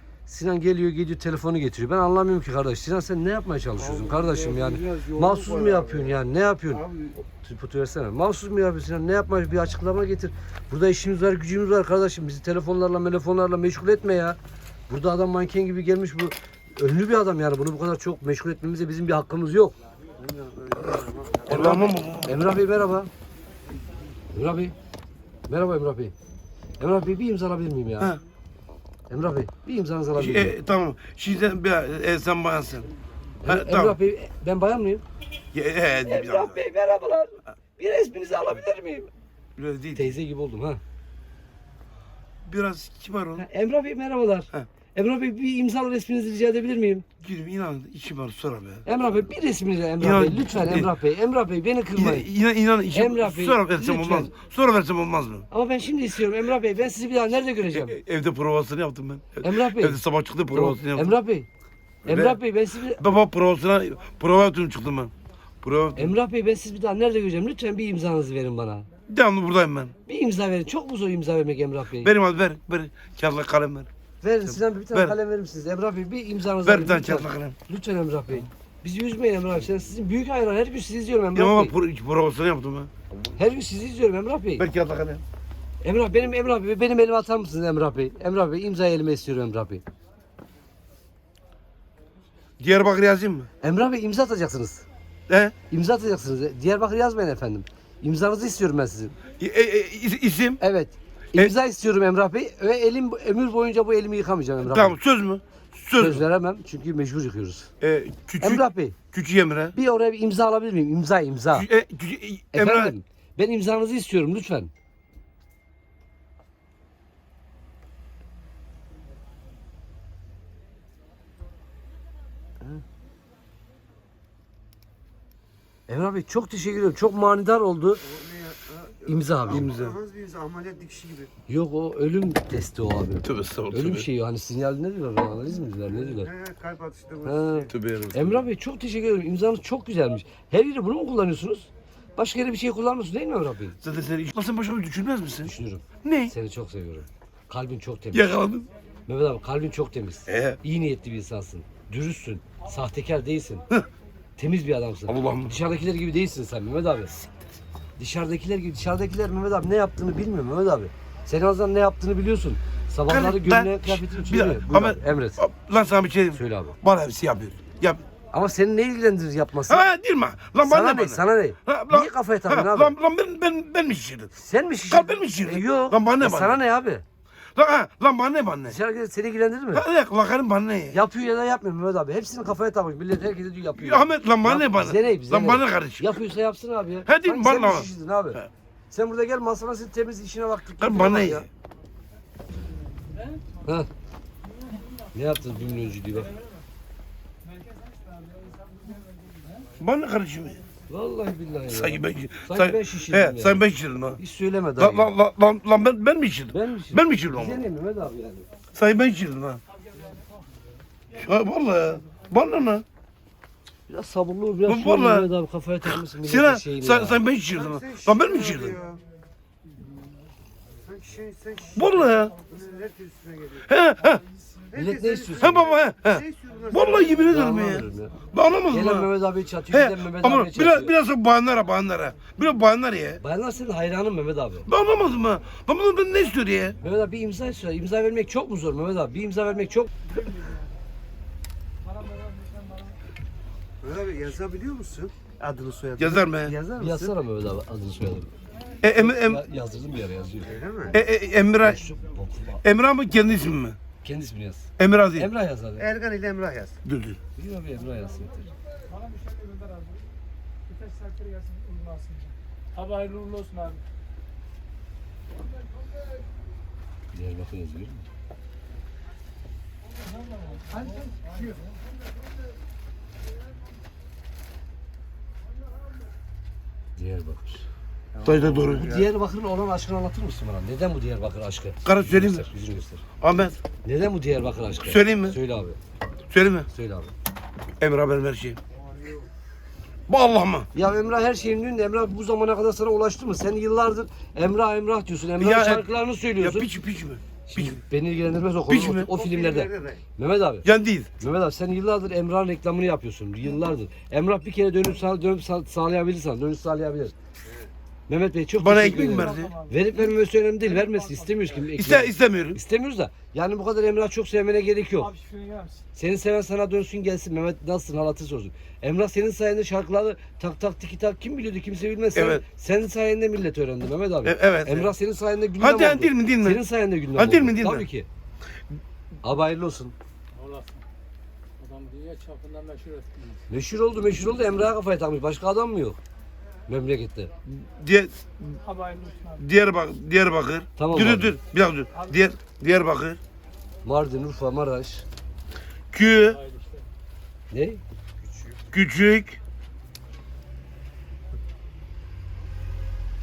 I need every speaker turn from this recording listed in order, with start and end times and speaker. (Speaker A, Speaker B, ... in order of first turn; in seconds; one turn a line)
Speaker A: 0.3-19.7
Speaker B: 3.8-6.2
Speaker B: 6.7-7.2
Speaker B: 20.2-21.9
Speaker C: 21.5-22.4
Speaker A: 21.6-23.1
Speaker A: 24.3-24.7
Speaker A: 25.5-26.1
Speaker A: 26.8-28.1
Speaker A: 29.1-30.6
Speaker C: 30.1-32.9
Speaker A: 33.4-35.0
Speaker C: 33.4-34.0
Speaker C: 35.5-36.6
Speaker A: 36.0-39.1
Speaker C: 39.6-40.2
Speaker A: 39.9-40.8
Speaker C: 42.4-43.5
Speaker A: 43.4-47.1
Speaker C: 47.2-48.8
Speaker A: 48.9-52.3
Speaker C: 50.0-50.9
Speaker C: 51.9-55.5
Speaker A: 52.9-54.4
Speaker A: 55.5-57.9
Speaker C: 57.7-61.2
Speaker A: 59.4-61.5
Speaker A: 62.0-63.1
Speaker C: 62.0-66.2
Speaker A: 65.9-68.9
Speaker C: 69.1-70.0
Speaker A: 70.0-72.1
Speaker C: 72.0-73.9
Speaker A: 74.2-81.7
Speaker C: 74.4-75.2
Speaker C: 76.6-77.6
Speaker C: 81.3-83.1
Speaker A: 83.3-84.7
Speaker C: 84.6-85.2
Speaker A: 85.8-89.8
Speaker C: 92.6-93.5
Speaker A: 93.6-94.8
Speaker C: 95.3-95.6
Speaker A: 95.7-99.2
Speaker C: 99.3-100.6
Speaker A: 100.6-105.0
Speaker C: 104.6-106.2
Speaker A: 106.0-107.7
Speaker C: 107.8-109.7
Speaker A: 108.4-109.0
Speaker A: 109.7-111.7
Speaker C: 111.5-112.9
Speaker A: 112.5-114.7
Speaker A: 125.9-128.1
Speaker B: 128.0-131.3
Speaker A: 129.1-129.7
Speaker C: 129.5-130.0
Speaker A: 131.5-136.3
Speaker C: 133.2-134.1
Speaker B: 136.0-137.7
Speaker A: 137.2-143.8
Speaker C: 137.6-138.5
Speaker C: 143.8-146.3
Speaker A: 145.4-148.3
Speaker C: 148.1-148.7
Speaker A: 149.1-153.7
Speaker C: 150.2-150.6
Speaker A: 154.4-157.3
Speaker C: 155.1-155.5
Speaker A: 158.0-165.5
Speaker C: 163.1-168.0
Speaker A: 166.3-166.8
Speaker A: 168.3-169.9
Speaker C: 169.7-174.3
Speaker A: 170.6-173.0
Speaker A: 174.3-177.0
Speaker C: 174.9-176.6
Speaker C: 177.6-178.8
Speaker A: 178.6-179.9
Speaker C: 179.7-181.0
Speaker A: 180.9-191.5
Speaker C: 183.7-186.1
Speaker C: 187.1-188.5
Speaker C: 190.8-191.5
Speaker A: 193.6-193.9
Speaker A: 195.1-196.4
Speaker C: 199.8-200.6
Speaker A: 200.9-205.1
Speaker C: 201.7-204.2
Speaker C: 204.8-207.6
Speaker A: 206.5-208.5
Speaker C: 208.7-209.6
Speaker C: 211.1-212.8
Speaker A: 213.9-217.2
Speaker C: 214.7-215.3
Speaker C: 215.8-218.8
Speaker B: 217.5-219.0
Speaker B: 220.8-221.8
Speaker C: 221.7-222.4
Speaker B: 222.4-223.6
Speaker C: 223.6-224.2
Speaker B: 224.7-227.3
Speaker A: 224.7-225.7
Speaker C: 225.4-229.1
Speaker A: 227.3-230.9
Speaker C: 229.7-233.2
Speaker A: 233.2-234.7
Speaker C: 234.7-236.8
Speaker A: 236.8-240.1
Speaker B: 243.8-247.1
Speaker C: 246.0-246.6
Speaker A: 246.6-248.3
Speaker C: 248.8-249.4
Speaker A: 248.9-251.0
Speaker B: 250.4-250.9
Speaker C: 250.9-251.8
Speaker A: 251.6-252.6
Speaker C: 252.6-253.9
Speaker A: 254.0-255.9
Speaker C: 254.8-255.3
Speaker B: 255.8-256.8
Speaker C: 256.8-257.2
Speaker A: 257.3-258.5
Speaker D: 258.9-259.9
Speaker D: 260.8-263.8
Speaker A: 267.1-268.1
Speaker A: 276.9-277.6
Speaker B: 278.1-279.0
Speaker C: 278.2-279.0
Speaker A: 278.7-283.1
Speaker C: 281.8-282.5
Speaker C: 283.2-283.6
Speaker A: 283.7-285.8
Speaker C: 284.9-285.4
Speaker C: 286.3-286.7
Speaker A: 286.7-287.1
Speaker C: 287.8-288.6
Speaker C: 290.1-290.7
Speaker A: 290.7-296.7
Speaker C: 295.4-297.8
Speaker A: 297.5-300.7
Speaker C: 298.7-299.1
Speaker B: 299.1-300.0
Speaker C: 300.6-301.2
Speaker A: 301.2-307.1
Speaker A: 308.1-328.1
Speaker C: 308.6-309.6
Speaker C: 311.7-312.6
Speaker D: 315.2-315.8
Speaker C: 322.1-322.4
Speaker C: 324.2-324.9
Speaker C: 325.6-327.9
Speaker A: 329.2-329.9
Speaker D: 330.4-330.7
Speaker D: 331.6-333.3
Speaker A: 333.4-336.0
Speaker A: 336.7-337.3
Speaker C: 337.4-338.6
Speaker D: 338.7-339.2
Speaker C: 339.2-343.2
Speaker A: 340.8-341.3
Speaker A: 343.8-345.1
Speaker C: 345.9-346.4
Speaker A: 347.5-347.8
Speaker C: 348.7-349.4